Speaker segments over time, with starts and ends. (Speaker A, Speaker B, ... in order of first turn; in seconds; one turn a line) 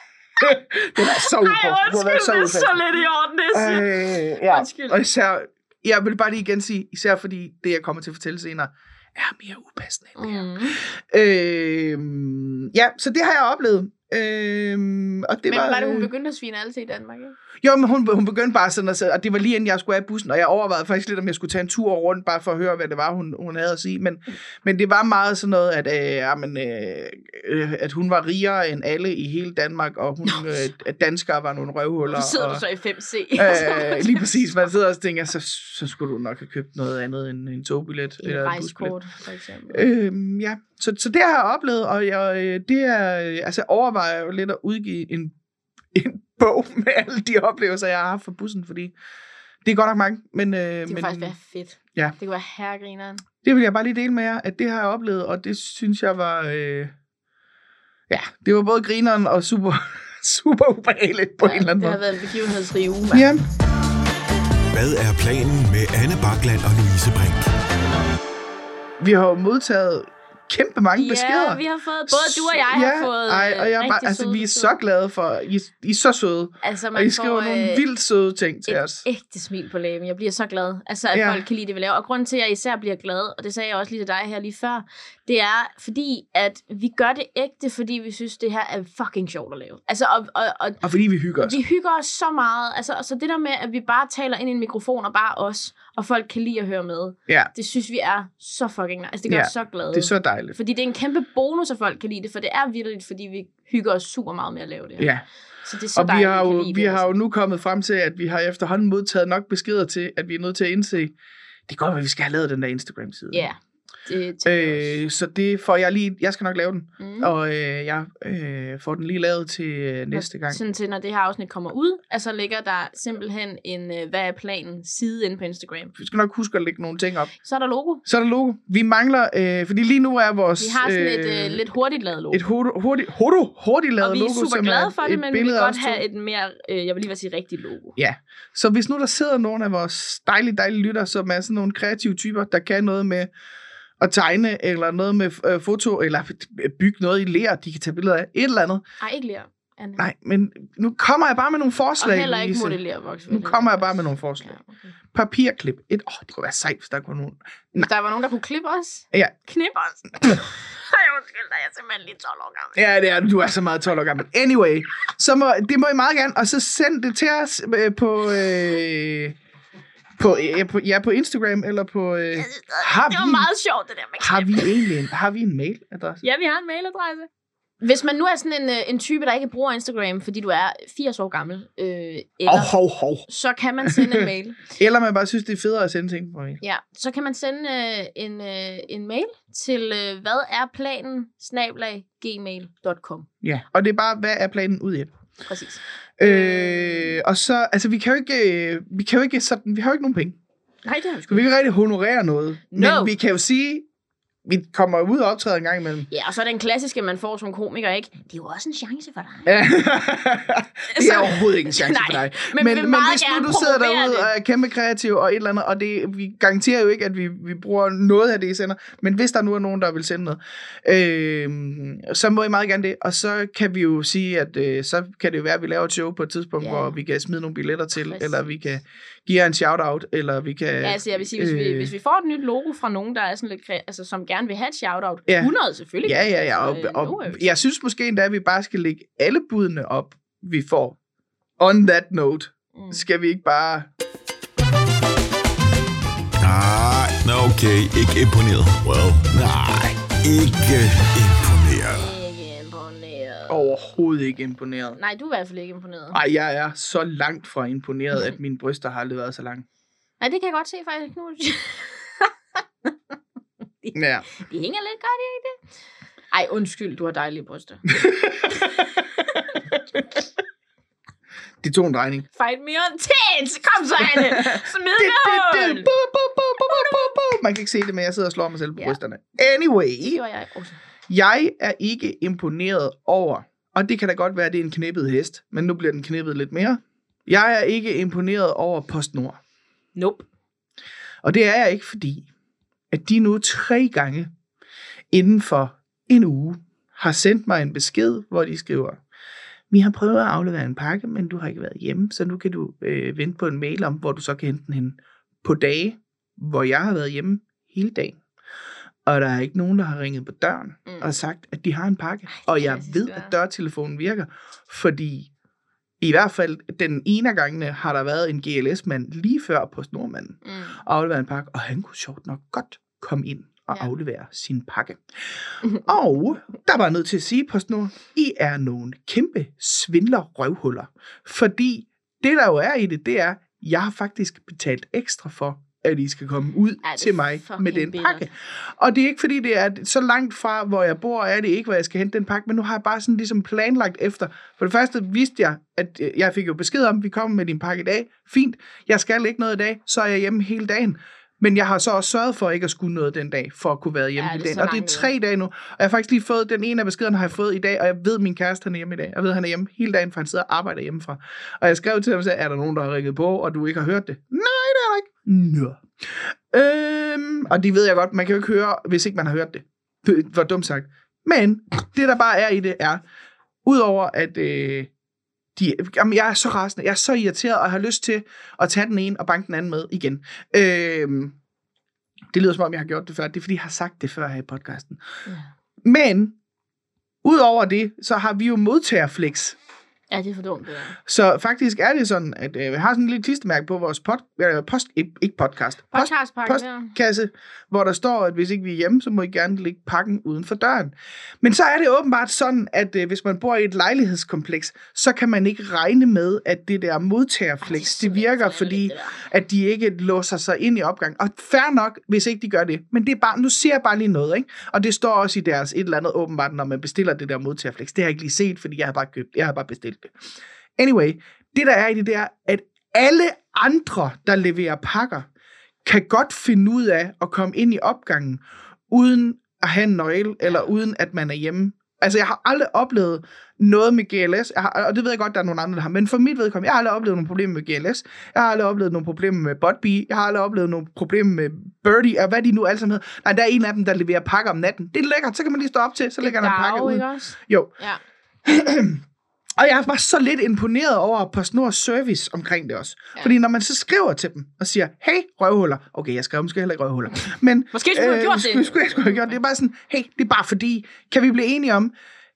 Speaker A: 0.4-3.0
Speaker B: 0.5-5.0
Speaker A: 3.5-16.1
Speaker B: 10.2-10.8
Speaker B: 15.5-17.4
Speaker A: 17.6-32.6
Speaker B: 32.1-34.5
Speaker A: 33.4-38.9
Speaker B: 38.2-39.9
Speaker A: 39.7-45.4
Speaker A: 45.9-49.0
Speaker A: 49.6-51.3
Speaker B: 50.9-53.2
Speaker A: 53.4-56.9
Speaker A: 58.1-62.0
Speaker B: 61.4-63.3
Speaker A: 63.1-63.5
Speaker C: 64.7-67.5
Speaker A: 69.0-79.0
Speaker B: 71.0-74.7
Speaker B: 76.6-77.8
Speaker B: 78.7-90.8
Speaker A: 81.1-81.5
Speaker A: 90.8-91.6
Speaker B: 91.4-105.1
Speaker A: 99.3-100.6
Speaker A: 105.0-105.2
Speaker B: 105.7-107.1
Speaker A: 106.0-111.1
Speaker A: 111.7-113.5
Speaker B: 113.3-115.0
Speaker A: 114.5-120.6
Speaker B: 117.0-117.3
Speaker B: 120.1-126.0
Speaker A: 126.0-127.3
Speaker B: 127.4-128.0
Speaker A: 128.1-131.6
Speaker B: 130.6-132.4
Speaker A: 132.3-136.0
Speaker B: 134.0-138.0
Speaker A: 138.0-143.3
Speaker A: 144.0-148.8
Speaker B: 149.0-150.0
Speaker A: 150.0-152.8
Speaker B: 152.0-154.9
Speaker A: 153.3-154.6
Speaker A: 155.1-157.9
Speaker B: 157.8-162.8
Speaker A: 162.8-169.4
Speaker A: 170.2-173.5
Speaker B: 172.3-174.9
Speaker A: 174.2-176.2
Speaker B: 176.2-177.3
Speaker B: 177.8-182.7
Speaker A: 182.5-183.3
Speaker B: 183.3-184.6
Speaker A: 183.8-186.6
Speaker B: 186.6-193.3
Speaker A: 193.4-195.1
Speaker B: 195.4-197.2
Speaker A: 196.2-200.4
Speaker B: 200.8-201.4
Speaker A: 201.3-203.9
Speaker B: 202.7-203.1
Speaker A: 204.4-206.1
Speaker B: 206.1-209.5
Speaker A: 209.5-231.9
Speaker B: 210.9-214.3
Speaker B: 226.6-227.0
Speaker B: 228.0-228.5
Speaker B: 230.8-237.5
Speaker A: 235.3-235.5
Speaker A: 236.0-241.0
Speaker A: 241.6-243.9
Speaker B: 242.8-243.0
Speaker C: 246.4-252.1
Speaker B: 251.9-253.7
Speaker A: 253.5-255.0
Speaker B: 255.0-256.2
Speaker A: 256.1-259.6
Speaker B: 260.2-262.3
Speaker B: 263.8-265.6
Speaker A: 263.9-264.2
Speaker B: 266.3-267.9
Speaker A: 267.9-268.5
Speaker B: 268.5-269.5
Speaker A: 271.6-272.3
Speaker B: 272.4-275.9
Speaker A: 274.0-280.2
Speaker B: 276.6-277.1
Speaker B: 280.0-280.8
Speaker A: 281.1-289.4
Speaker B: 289.9-290.3
Speaker A: 291.2-292.3
Speaker A: 292.9-294.3
Speaker A: 295.1-299.0
Speaker A: 299.7-308.2
Speaker A: 309.1-315.3
Speaker B: 310.9-311.2
Speaker B: 312.4-313.3
Speaker A: 316.0-325.0
Speaker B: 320.4-320.8
Speaker A: 325.7-373.0
Speaker B: 336.8-338.3
Speaker B: 354.2-355.1
Speaker A: 373.6-374.9
Speaker A: 375.6-381.4
Speaker A: 382.3-385.0
Speaker A: 385.8-386.4
Speaker A: 387.2-389.6
Speaker B: 390.1-391.0
Speaker A: 391.1-420.1
Speaker B: 395.9-396.9
Speaker B: 407.6-409.2
Speaker A: 420.8-425.3
Speaker A: 425.9-447.7
Speaker B: 446.2-448.0
Speaker A: 448.4-449.0
Speaker A: 449.6-461.9
Speaker B: 457.7-459.4